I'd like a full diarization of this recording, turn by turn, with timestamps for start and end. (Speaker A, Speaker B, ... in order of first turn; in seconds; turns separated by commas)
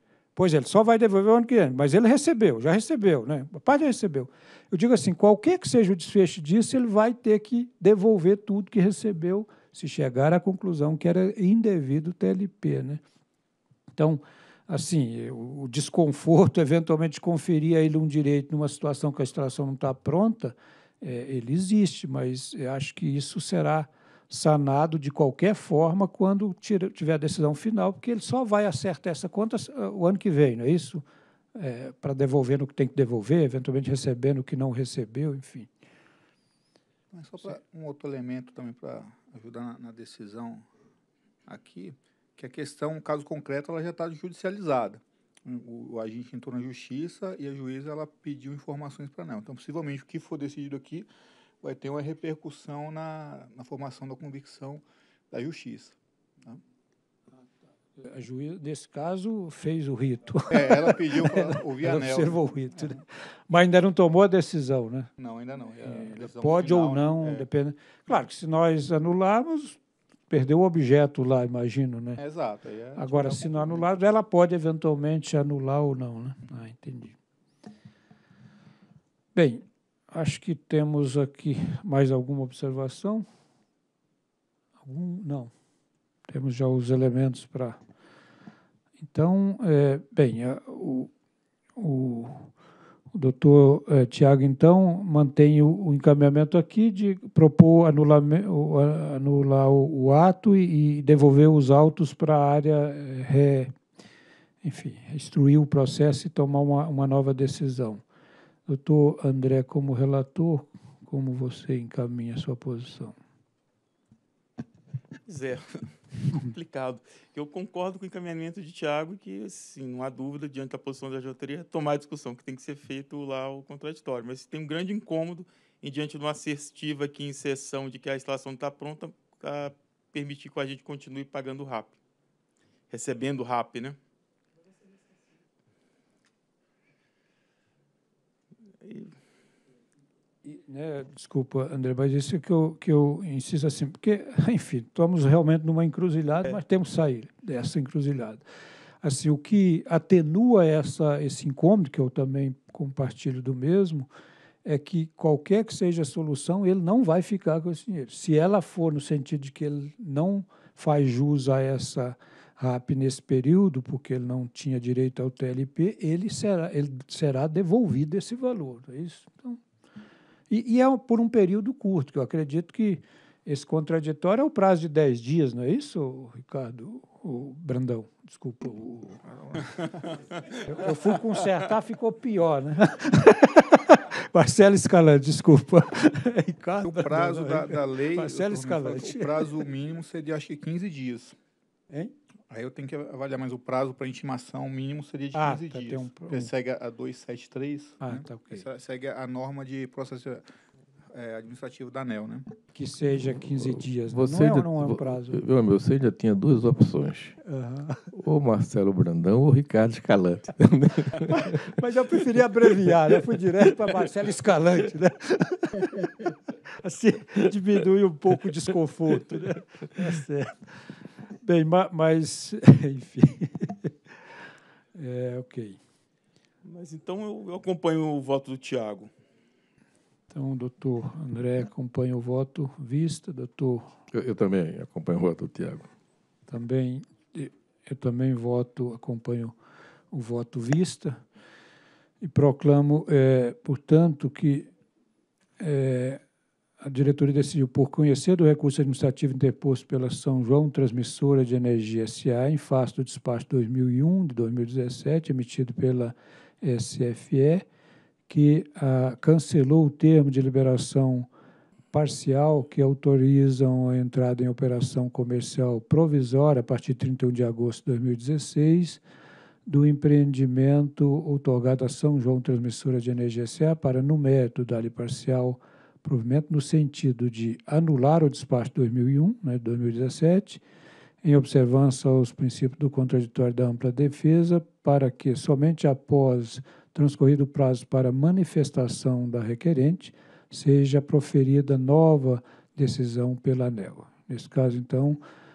Speaker A: 0.3-13.0, Speaker A: 14.0-31.0, Speaker A: 31.6-35.7, Speaker B: 37.1-40.6, Speaker B: 41.5-51.1, Speaker B: 51.6-56.6, Speaker A: 58.0-65.1, Speaker B: 60.5-63.0, Speaker B: 65.2-67.5, Speaker A: 65.8-72.2, Speaker B: 72.2-74.0, Speaker A: 73.0-77.2, Speaker A: 79.3-83.2, Speaker A: 84.8-85.5, Speaker A: 86.3-87.8, Speaker A: 89.0-91.1, Speaker A: 91.8-92.5, Speaker A: 93.1-103.7, Speaker A: 104.6-108.0, Speaker A: 108.7-113.2, Speaker C: 115.2-132.0, Speaker C: 132.9-134.0, Speaker C: 138.8-139.1, Speaker A: 140.4-148.4, Speaker A: 149.0-154.1, Speaker A: 154.6-169.6, Speaker A: 170.5-179.2, Speaker B: 179.2-180.2, Speaker A: 180.6-189.6, Speaker B: 186.8-191.4, Speaker B: 192.5-200.5, Speaker A: 195.3-196.5, Speaker A: 198.0-198.6, Speaker B: 201.1-202.5, Speaker A: 202.7-205.4, Speaker D: 203.3-207.4, Speaker A: 207.4-208.1, Speaker D: 208.1-211.8, Speaker A: 211.4-215.9, Speaker A: 216.8-220.6, Speaker A: 221.4-223.9, Speaker A: 224.9-225.8, Speaker C: 226.6-229.1, Speaker A: 230.3-233.9, Speaker D: 234.1-235.9, Speaker A: 236.5-239.5, Speaker A: 240.1-241.2, Speaker A: 242.2-244.7, Speaker A: 245.6-246.2, Speaker A: 246.8-257.6, Speaker A: 258.3-261.3, Speaker A: 261.9-269.0, Speaker A: 269.7-280.6, Speaker A: 281.2-295.2